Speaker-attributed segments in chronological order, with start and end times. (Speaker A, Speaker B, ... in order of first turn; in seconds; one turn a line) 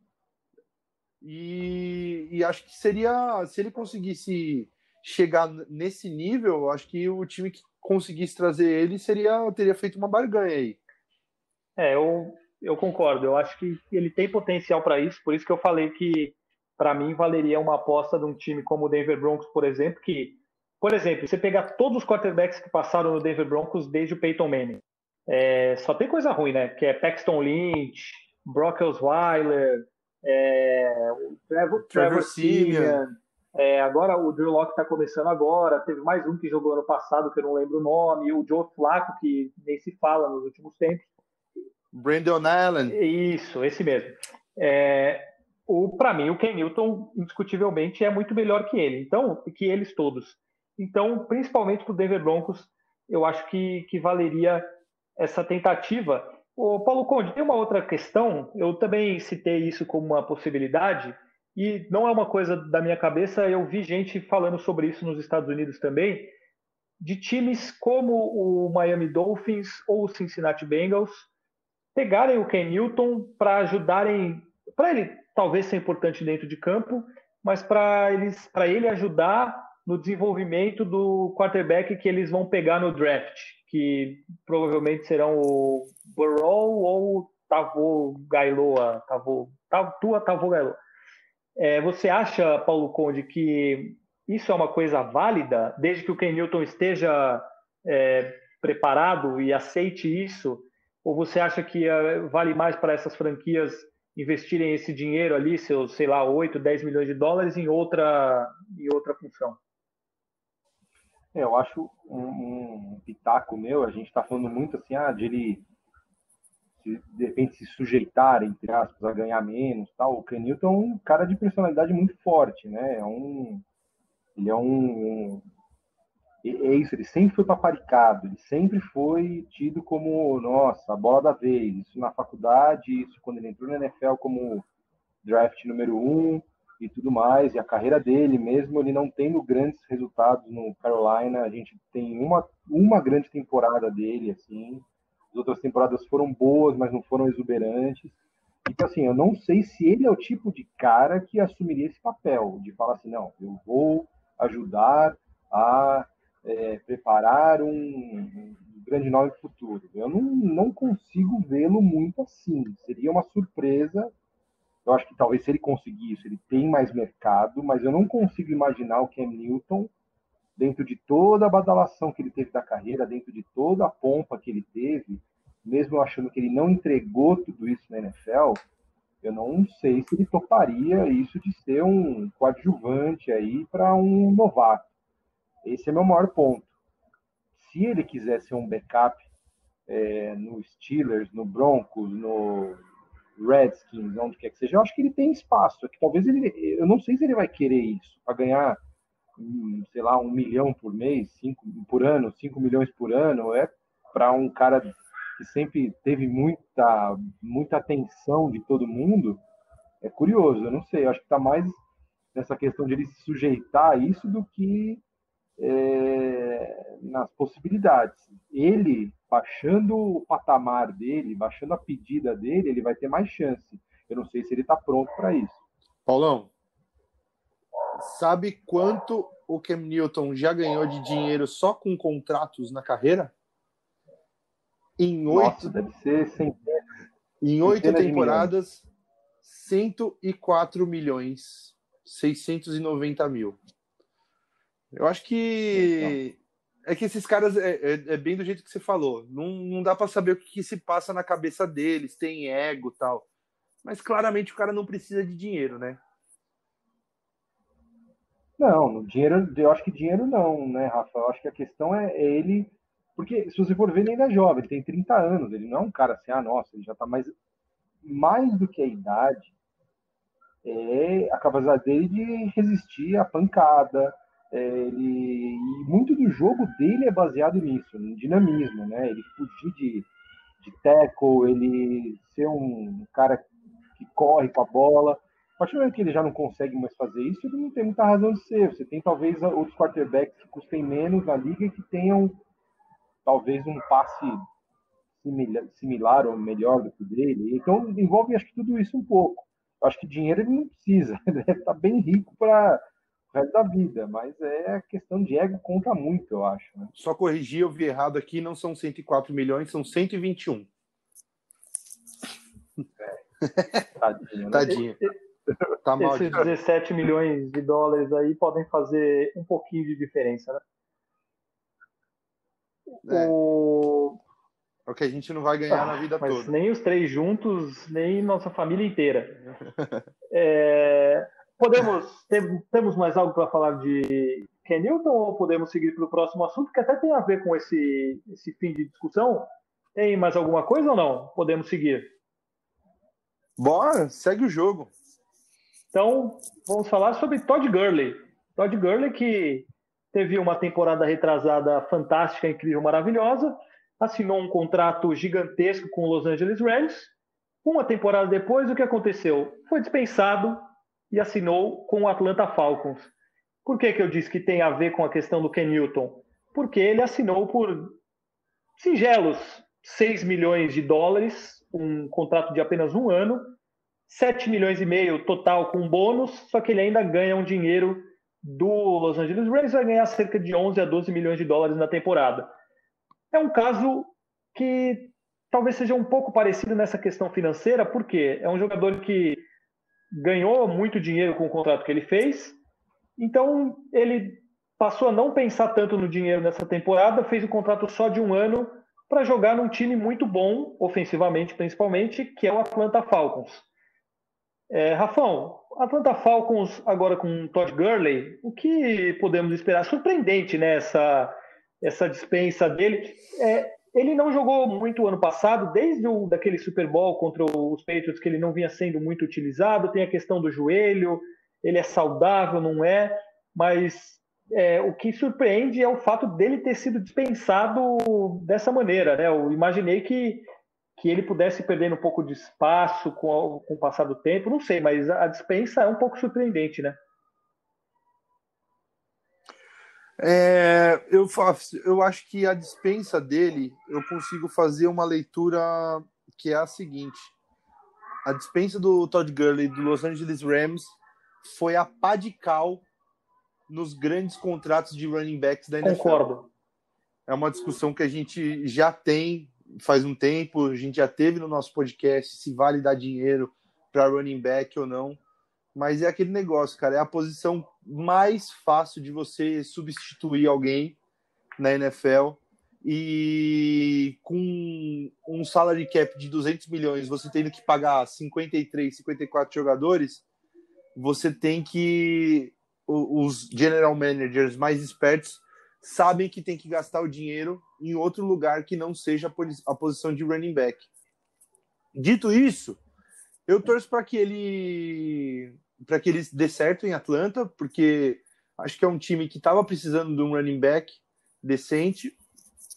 Speaker A: 1.2-10.8
Speaker B: 11.8-41.1
Speaker A: 31.9-33.0
Speaker A: 41.9-43.0
Speaker B: 42.9-66.3
Speaker B: 67.0-71.3
Speaker B: 71.9-90.8
Speaker B: 91.6-109.6
Speaker C: 111.3-115.6
Speaker C: 116.8-123.6
Speaker C: 124.3-125.4
Speaker C: 126.4-134.7
Speaker C: 135.2-164.1
Speaker C: 164.8-169.9
Speaker C: 170.6-178.6
Speaker C: 179.2-184.9
Speaker C: 185.6-186.7
Speaker C: 187.6-189.2
Speaker C: 189.9-192.8
Speaker C: 193.4-198.8
Speaker C: 199.4-209.4
Speaker C: 210.0-211.8
Speaker C: 212.3-215.0
Speaker C: 215.6-225.6
Speaker A: 226.1-226.5
Speaker A: 228.0-233.3
Speaker A: 235.0-235.7
Speaker C: 235.3-236.8
Speaker A: 237.4-238.8
Speaker C: 237.6-238.5
Speaker A: 239.4-243.6
Speaker A: 244.9-253.3
Speaker C: 245.7-246.2
Speaker A: 253.8-256.0
Speaker C: 258.6-267.3
Speaker C: 268.0-269.5
Speaker C: 270.6-280.1
Speaker C: 280.6-292.4
Speaker C: 293.2-294.4
Speaker C: 295.2-306.9
Speaker A: 306.9-310.7
Speaker A: 313.4-313.8
Speaker C: 314.0-314.8
Speaker A: 314.5-315.0
Speaker B: 314.7-315.1
Speaker A: 315.8-316.5
Speaker B: 316.0-320.6
Speaker B: 322.9-324.2
Speaker A: 323.0-323.3
Speaker A: 324.9-326.5
Speaker B: 325.7-329.4
Speaker B: 330.3-342.1
Speaker A: 343.6-344.9
Speaker B: 345.9-357.1
Speaker B: 357.6-363.1
Speaker B: 363.6-368.0
Speaker B: 368.8-373.5
Speaker B: 374.1-382.5
Speaker B: 383.3-389.4
Speaker B: 390.1-392.6
Speaker B: 393.2-403.7
Speaker B: 404.7-437.0
Speaker A: 440.2-447.3
Speaker A: 448.2-452.8
Speaker A: 453.7-456.2
Speaker B: 455.8-456.5
Speaker A: 457.3-465.2
Speaker A: 465.7-471.0
Speaker A: 471.6-480.2
Speaker A: 480.9-490.9
Speaker A: 491.9-492.8
Speaker A: 493.5-502.1